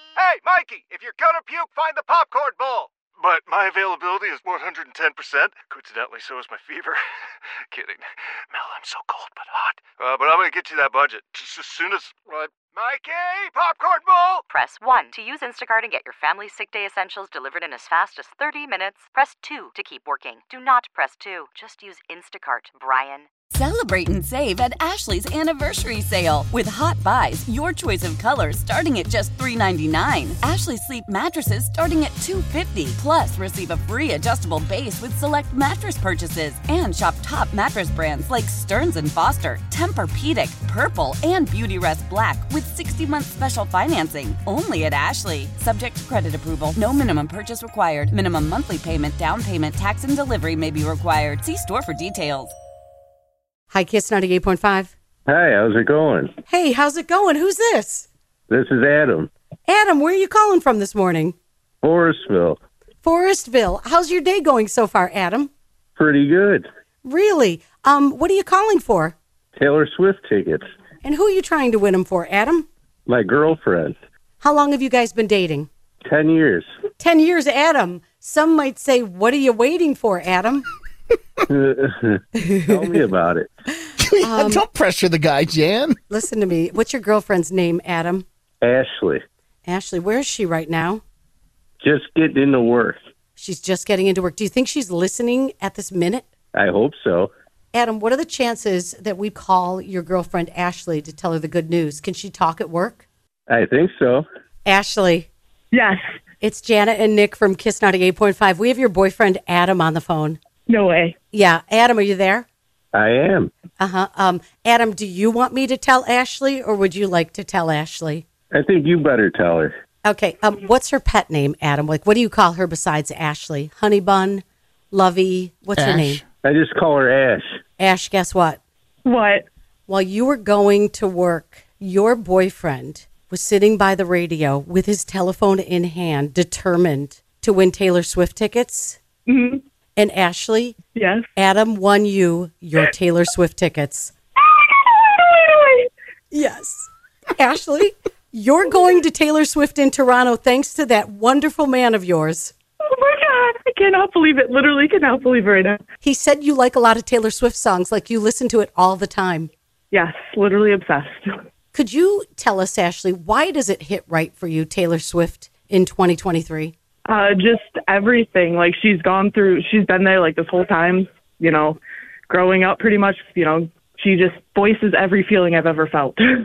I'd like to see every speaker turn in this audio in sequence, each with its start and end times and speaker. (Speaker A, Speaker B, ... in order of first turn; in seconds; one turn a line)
Speaker A: 0.2-7.0
Speaker A: 7.7-14.4
Speaker B: 14.5-23.3
Speaker C: 23.5-52.5
Speaker D: 53.7-54.9
Speaker E: 55.3-56.3
Speaker D: 56.5-58.1
Speaker E: 58.5-59.3
Speaker D: 59.7-61.3
Speaker E: 61.8-62.6
Speaker D: 63.0-65.5
Speaker E: 66.0-66.7
Speaker D: 67.0-69.1
Speaker E: 69.5-70.7
Speaker D: 71.0-72.7
Speaker E: 73.1-74.0
Speaker D: 74.4-75.7
Speaker E: 76.0-76.7
Speaker D: 77.0-80.7
Speaker E: 81.5-83.5
Speaker D: 82.3-83.1
Speaker F: 84.0-86.0
Speaker D: 84.2-84.6
Speaker D: 86.1-88.2
Speaker E: 88.6-89.2
Speaker D: 89.7-91.0
Speaker E: 91.8-93.0
Speaker D: 93.4-96.3
Speaker E: 96.5-97.3
Speaker D: 97.7-103.0
Speaker E: 103.5-104.2
Speaker D: 104.7-105.3
Speaker G: 105.7-106.0
Speaker D: 106.4-110.4
Speaker G: 110.7-111.2
Speaker D: 111.3-112.4
Speaker E: 112.9-113.5
Speaker D: 113.8-118.2
Speaker E: 118.5-119.7
Speaker D: 120.0-126.2
Speaker F: 125.8-126.2
Speaker E: 126.4-127.5
Speaker D: 127.8-128.6
Speaker G: 129.0-129.4
Speaker D: 129.9-139.0
Speaker G: 139.3-139.6
Speaker D: 140.0-140.8
Speaker G: 140.9-141.2
Speaker D: 141.3-144.1
Speaker G: 144.4-145.9
Speaker D: 146.3-152.5
Speaker G: 152.9-155.8
Speaker D: 156.0-159.5
Speaker G: 159.9-161.3
Speaker D: 161.7-166.7
Speaker G: 167.1-176.2